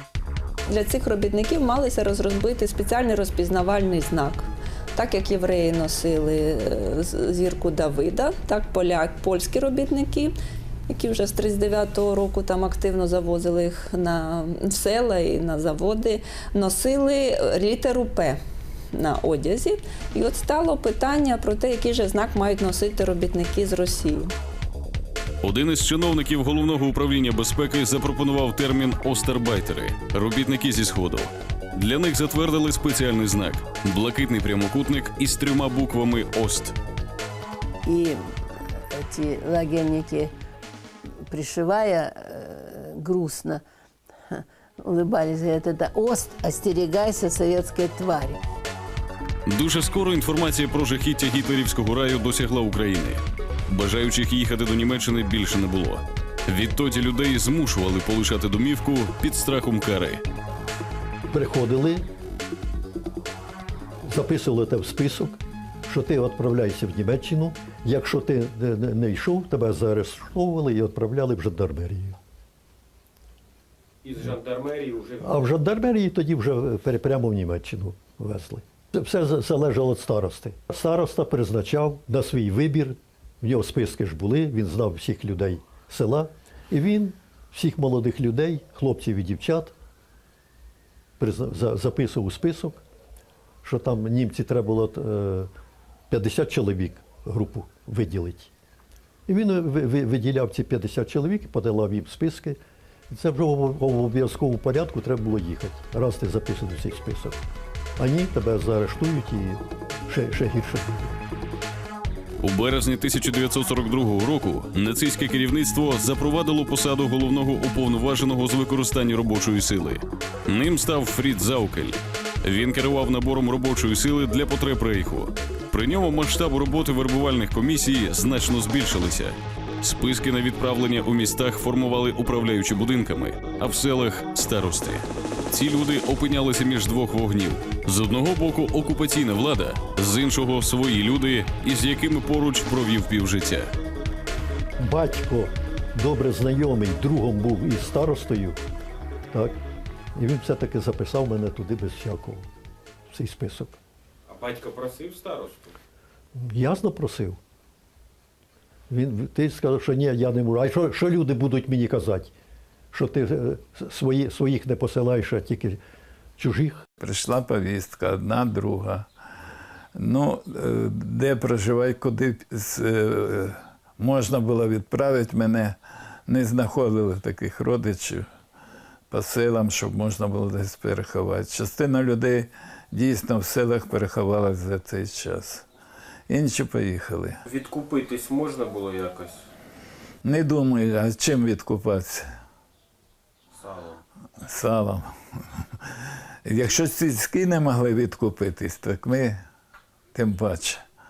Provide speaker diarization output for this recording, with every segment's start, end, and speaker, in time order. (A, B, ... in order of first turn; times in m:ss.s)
0:00.7-0:10.3 A
0:10.9-0:18.4 A
0:18.9-0:24.3 A
0:25.4-0:36.8 B
0:37.9-0:38.2 C
0:38.9-0:40.3 C
0:41.3-0:43.6 C
0:44.3-0:48.4 C
0:49.5-1:00.2 B
1:01.3-1:02.1 D
1:04.0-1:12.2 D
1:14.0-1:15.4 E
1:15.2-1:29.8 D
1:31.2-1:32.8 D
1:33.6-1:35.5 D
1:36.1-1:38.5 D
1:39.3-1:42.6 D
1:43.1-1:47.4 D
1:48.0-1:51.2 D
1:52.4-2:23.7 B
2:24.8-2:28.6 D
2:29.3-2:29.6 D
2:30.2-2:32.5 D
2:33.1-2:33.8 D
2:34.3-2:35.7 E
2:36.4-2:37.4 D
2:38.9-2:42.3 D
2:42.9-2:45.8 D
2:46.4-2:46.8 D
2:47.0-2:49.1 F
2:50.0-2:58.3 F
2:59.1-3:05.7 F
3:06.3-3:07.4 F
3:07.5-3:09.4 E
3:10.2-3:12.3 F
3:13.6-3:14.0 E
3:14.4-3:15.1 F
3:16.4-3:19.4 F
3:20.1-3:20.8 F